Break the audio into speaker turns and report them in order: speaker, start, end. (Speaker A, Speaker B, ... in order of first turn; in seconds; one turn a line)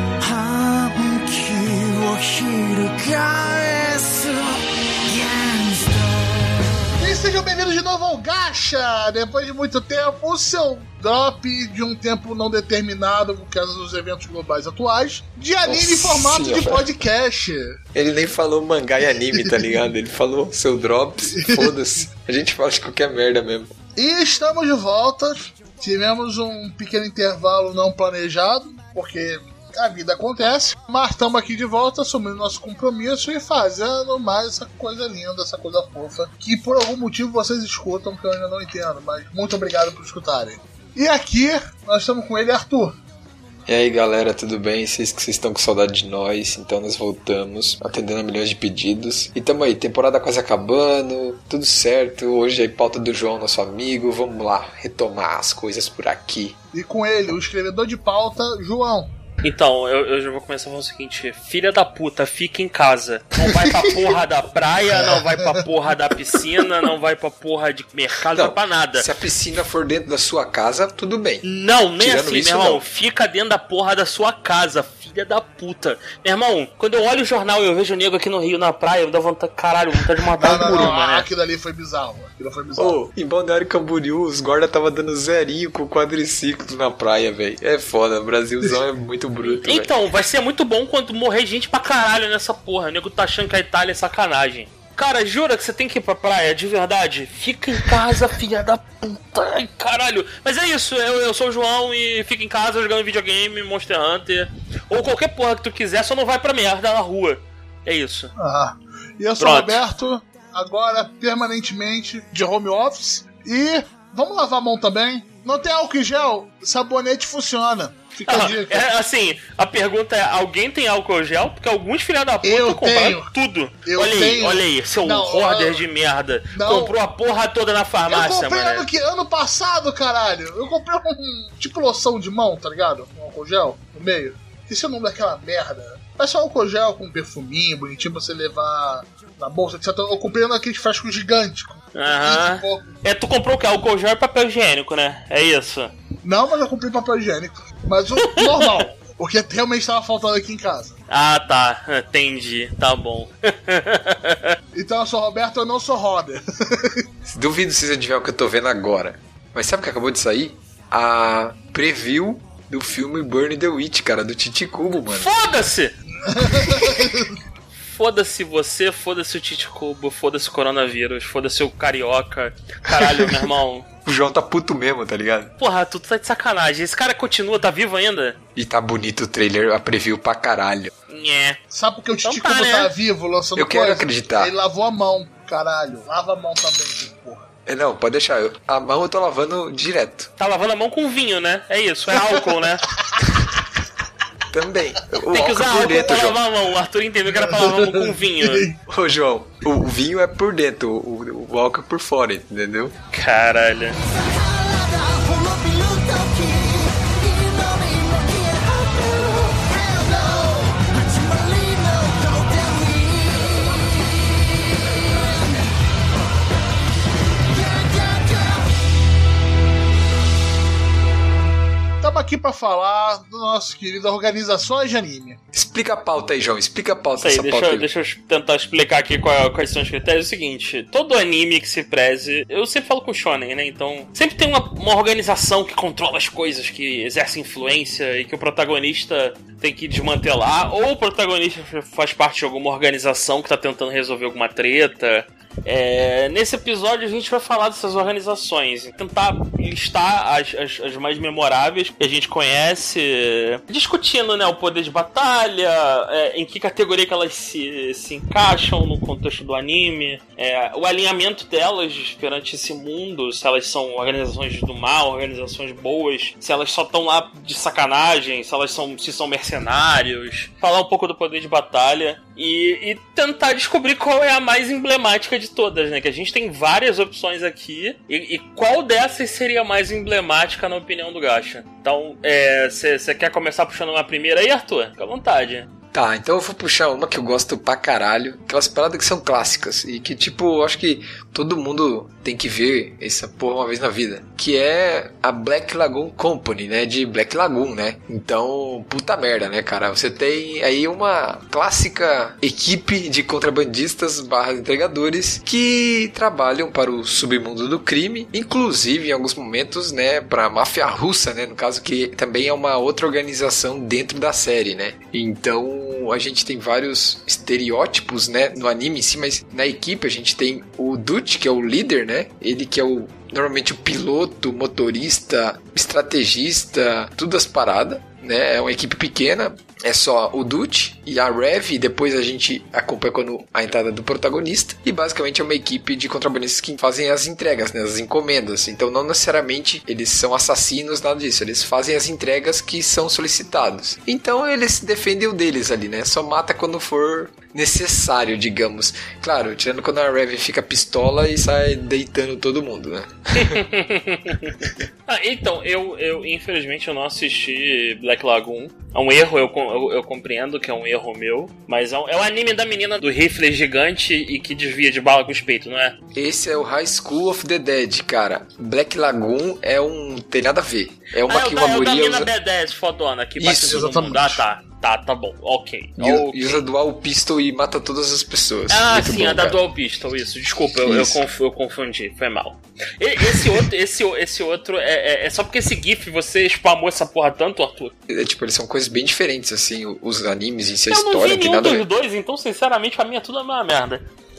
Speaker A: 0.2-6.8
Speaker B: 7.0-17.8
Speaker C: 15.6-16.9
Speaker C: 17.9-23.7
Speaker B: 19.4-19.7
Speaker B: 21.3-21.7
Speaker B: 23.9-43.0
Speaker C: 43.7-56.5
Speaker B: 56.7-59.1
Speaker D: 59.4-69.1
Speaker C: 63.4-64.1
Speaker C: 68.3-71.4
Speaker D: 71.4-81.2
Speaker C: 72.0-72.8
Speaker B: 80.4-83.0
Speaker C: 82.8-89.9
Speaker D: 89.4-108.3
Speaker B: 108.3-118.9
Speaker D: 109.4-109.8
Speaker D: 118.3-128.9
Speaker B: 122.4-123.3
Speaker B: 123.8-125.8
Speaker B: 126.5-127.0
Speaker B: 128.1-142.9
Speaker D: 141.9-145.9
Speaker B: 146.2-151.0
Speaker D: 148.2-148.8
Speaker D: 151.1-154.6
Speaker B: 154.7-157.0
Speaker C: 157.3-165.3
Speaker D: 165.1-165.9
Speaker B: 166.2-167.3
Speaker D: 167.8-173.9
Speaker C: 172.9-173.5
Speaker C: 174.1-175.5
Speaker D: 175.6-178.4
Speaker C: 178.6-180.9
Speaker D: 181.1-181.6
Speaker B: 181.7-187.5
Speaker D: 182.2-182.9
Speaker C: 183.6-184.5
Speaker C: 187.7-190.3
Speaker D: 190.4-192.9
Speaker C: 194.5-196.4
Speaker D: 195.3-198.7
Speaker B: 197.3-198.7
Speaker C: 198.8-202.9
Speaker D: 203.1-204.0
Speaker A: 204.0-214.0
Speaker A: 217.6-218.6
Speaker B: 222.0-225.4
Speaker C: 225.5-227.9
Speaker D: 227.2-285.7
Speaker C: 285.9-353.6
Speaker D: 353.4-365.9
Speaker C: 366.1-372.3
Speaker D: 371.2-376.6
Speaker C: 373.4-373.8
Speaker B: 373.5-374.4
Speaker C: 376.0-379.6
Speaker D: 378.7-387.9
Speaker C: 380.8-381.2
Speaker C: 383.2-383.6
Speaker C: 388.1-391.8
Speaker D: 390.9-394.0